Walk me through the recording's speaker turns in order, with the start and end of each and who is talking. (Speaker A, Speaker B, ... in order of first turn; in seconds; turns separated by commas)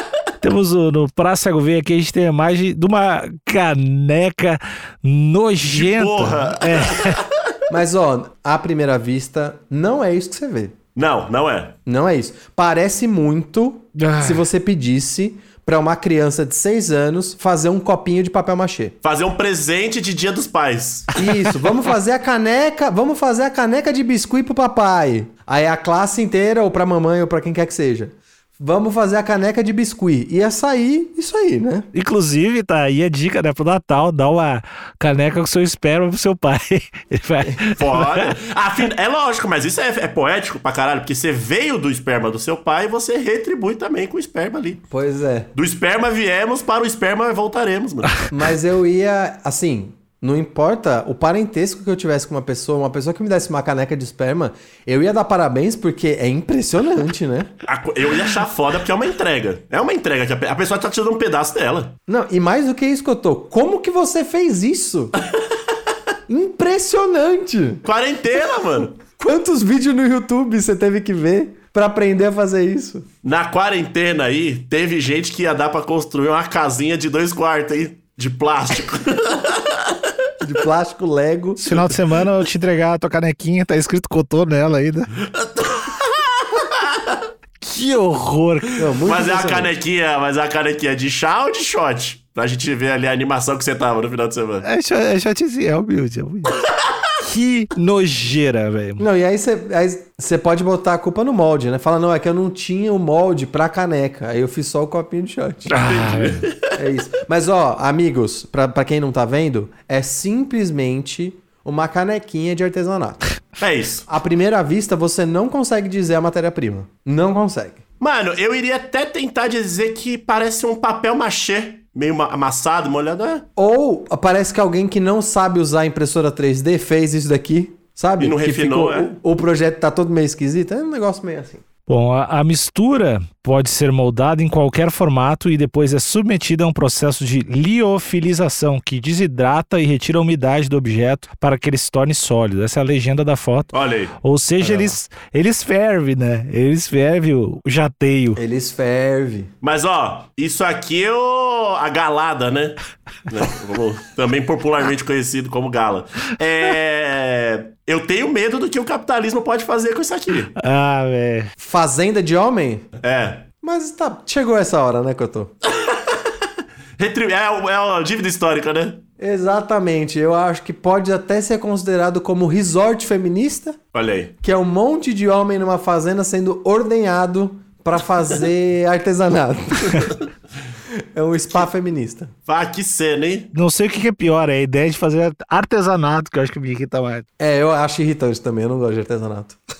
Speaker A: 0.4-7.2, Speaker B: 5.6-7.3, Speaker C: 7.7-10.8, Speaker B: 10.9-11.7, Speaker C: 11.8-18.9, Speaker A: 13.9-14.4, Speaker B: 19.0-21.2, Speaker C: 21.1-31.9, Speaker A: 31.9-38.3, Speaker B: 37.7-44.8, Speaker C: 44.9-45.5, Speaker B: 45.5-48.3, Speaker C: 48.3-57.5, Speaker B: 57.6-61.9, Speaker C: 62.1-65.1, Speaker C: 66.3-67.8, Speaker B: 67.8-69.0, Speaker C: 69.0-73.0, Speaker B: 73.2-80.0, Speaker C: 80.4-81.8, Speaker A: 81.6-85.1, Speaker B: 85.3-87.2, Speaker A: 87.6-88.8, Speaker C: 88.8-89.7, Speaker B: 89.0-94.6, Speaker A: 94.6-96.6, Speaker A: 97.2-99.0, Speaker C: 99.0-105.7, Speaker A: 105.7-106.5, Speaker B: 105.7-106.8, Speaker C: 106.7-113.2, Speaker B: 113.6-114.0, Speaker C: 114.1-117.8, Speaker B: 118.0-123.5, Speaker C: 123.5-131.6, Speaker B: 128.2-129.1, Speaker A: 131.9-148.4, Speaker B: 143.7-144.1, Speaker C: 144.6-144.9, Speaker C: 148.3-149.5, Speaker B: 149.6-160.5, Speaker A: 160.5-161.5, Speaker C: 161.6-162.8, Speaker B: 163.0-163.5, Speaker C: 163.6-165.5, Speaker B: 165.6-166.3, Speaker B: 167.0-169.0, Speaker C: 169.2-173.8, Speaker B: 173.9-174.3, Speaker C: 174.4-180.2, Speaker C: 181.1-182.3, Speaker B: 182.5-183.5, Speaker A: 183.5-187.2, Speaker C: 187.4-189.6